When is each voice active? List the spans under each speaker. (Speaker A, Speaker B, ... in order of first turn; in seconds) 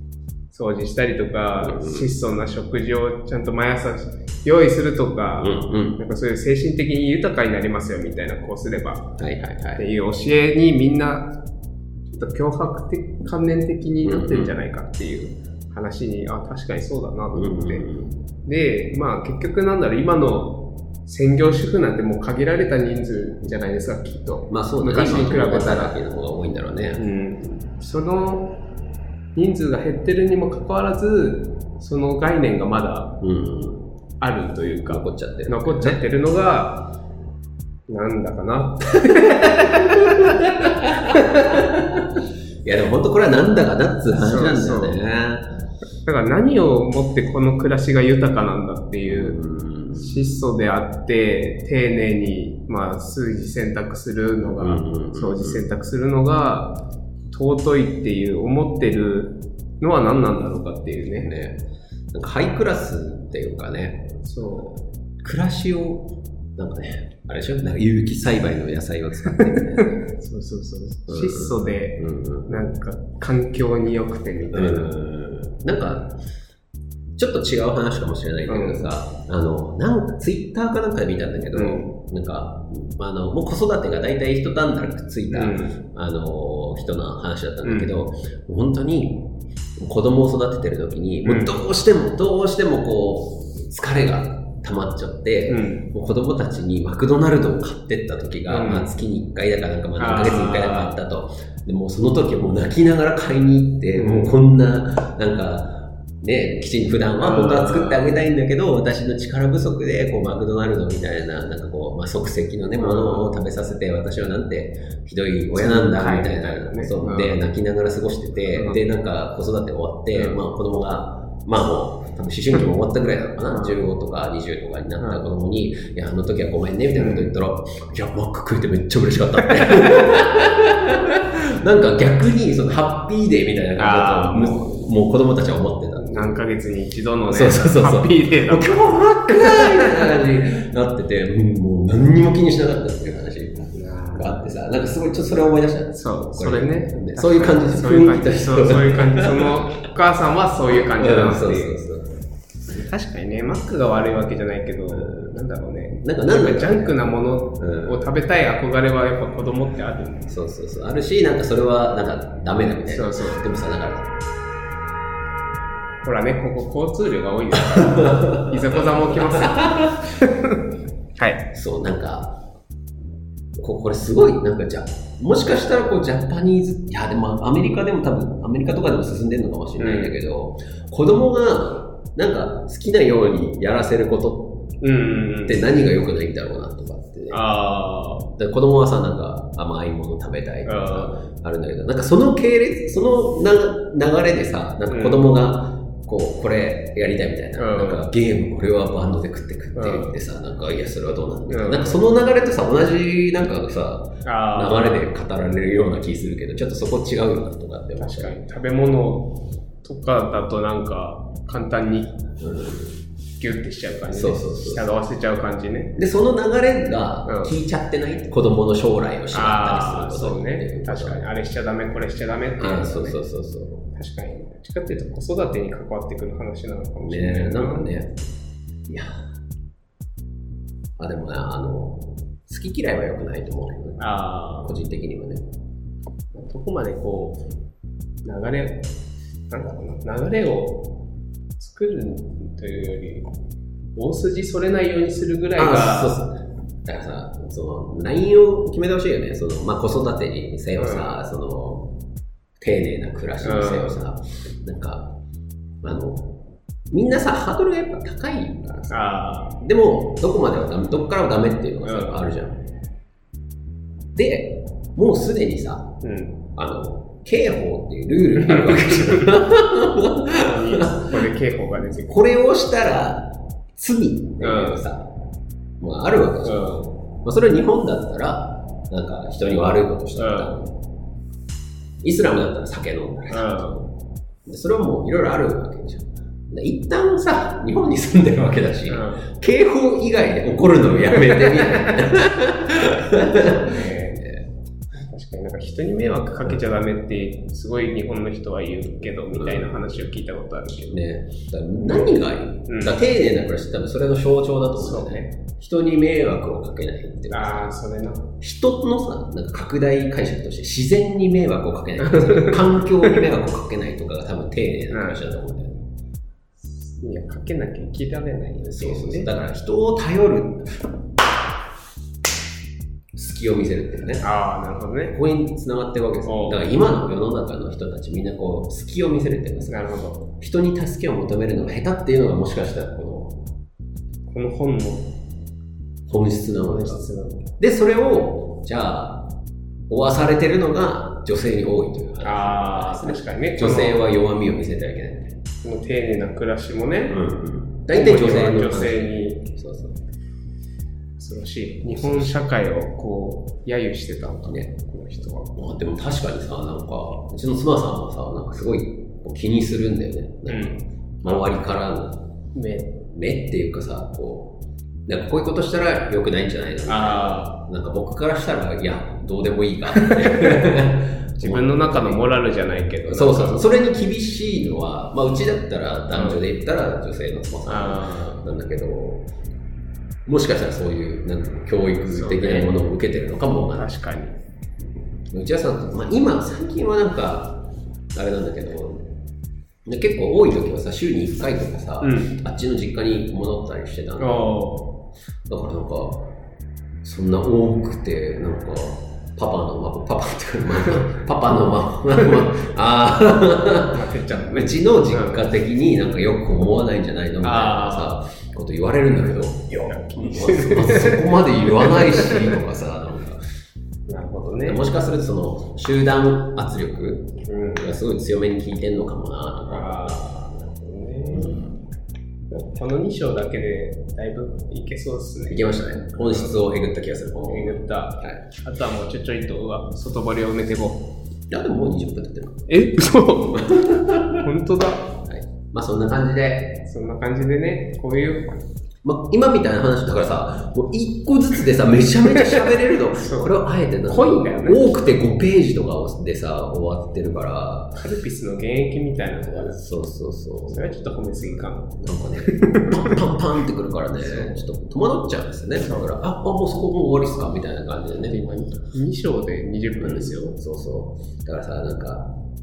Speaker A: 0.5-9.1, 9.8-11.3, 12.1-17.9, 18.4-26.0, 27.0-28.5, 29.4-33.1, 34.2-36.9, 37.9-41.7, 44.1-45.0, 46.0-49.4, 49.9-56.8, 57.3-61.3, 64.2-64.8, 69.3-74.9, 78.5-78.9, 81.5-81.9, 85.3-85.8, 87.6-87.9, 91.2-91.5, 95.5-95.9, 98.5-98.9, 100.0-101.0, 104.0-104.3, 107.2-108.0, 112.8-113.3, 115.6-117.4, 118.5-118.8, 120.2-120.4, 123.5-123.8, 126.9-127.3, 133.8-134.7, 136.0-140.2, 143.8-144.4, 145.9-151.8, 152.7-160.3, 162.8-163.4, 166.0-170.6, 171.2-171.5, 179.8-180.2, 184.8-185.6, 187.3-188.3, 190.7-191.2, 194.9-195.3, 197.6-198.1, 199.8-200.1, 201.5-202.0, 204.2-205.0, 208.0-212.2, 213.4-216.0, 217.3-217.6, 219.3-223.2, 223.9-227.9, 234.0-234.8, 236.3-237.4, 238.2-238.8, 239.5-240.9, 241.6-243.3, 244.0-246.2, 250.8-251.2, 253.4-254.0, 258.9-259.6, 261.8-262.2, 266.0-266.4, 268.4-269.4, 270.4-272.2, 274.4-274.8, 276.4-276.9, 280.2-280.5, 283.3-283.9, 288.9-289.3, 291.2-292.1, 293.2-294.3, 295.0-301.0, 301.8-302.1, 302.7-303.0, 304.8-305.3, 307.3-308.3, 312.0-313.2, 314.9-315.2, 316.8-319.3, 324.2-325.1, 326.2-326.6, 329.6-330.3, 334.3-335.1, 336.6-337.4, 342.2-344.0, 345.6-347.2, 347.9-349.4, 351.2-355.6, 360.5-361.5, 362.6-363.0, 366.9-367.6, 369.9-370.6, 371.4-373.6, 376.1-376.4, 377.7-378.5, 382.1-382.8, 383.7-384.4, 392.0-392.4, 394.2-394.9, 402.1-402.5, 403.9-405.4, 407.4-408.2, 409.9-412.5, 414.1-414.9, 417.4-417.9, 419.6-421.6, 422.5-426.6, 427.4-431.1, 432.7-433.8, 434.4-435.1, 436.8-438.6, 442.3-443.6, 444.1-444.9, 448.0-449.8, 450.7-453.3, 454.2-454.6, 455.8-456.1, 458.3-460.6
Speaker B: 1.6-2.1, 5.4-6.0, 9.2-9.8, 14.0-14.6, 17.3-18.2, 24.5-27.0, 33.2-33.8, 34.9-36.0, 40.0-45.5, 49.0-50.4, 54.5-55.6, 61.2-61.6, 62.1-64.2, 65.2-70.0, 71.1-72.6, 74.5-76.1, 77.2-136.4, 137.3-149.8, 150.7-152.2, 154.9-155.3, 156.0-157.0, 157.6-158.1, 160.3-164.1, 167.5-170.1, 171.5-172.4, 173.6-184.6, 185.5-187.4, 188.4-208.3, 212.4-213.0, 214.1-214.9, 216.0-221.2, 222.6-223.8, 227.1-228.2, 228.9-229.2, 231.0-234.0, 234.6-235.4, 245.6-251.9, 252.6-255.1, 255.8-256.3, 256.9-258.9, 259.6-262.6, 264.1-265.9, 266.6-271.2, 272.1-275.1, 275.8-276.7, 277.2-280.8, 282.0-283.8, 284.5-294.4, 299.3-299.9, 300.9-307.7, 308.4-315.8, 318.6-320.9, 323.1-324.2, 325.1-329.7, 330.4-333.4, 336.1-337.1, 337.6-339.3, 339.9-345.4, 347.1-350.0, 351.9-352.5, 355.6-362.2, 363.1-364.6, 365.1-372.2, 373.1-379.2, 380.3-383.9, 385.3-389.1, 389.9-394.5, 395.5-396.3, 397.0-413.4, 414.7-420.2, 421.3-421.8, 425.5-428.4, 431.5-432.7, 433.6-434.4, 435.2-436.8, 439.0-448.0, 449.5-450.9, 451.5-458.4, 460.0-462.3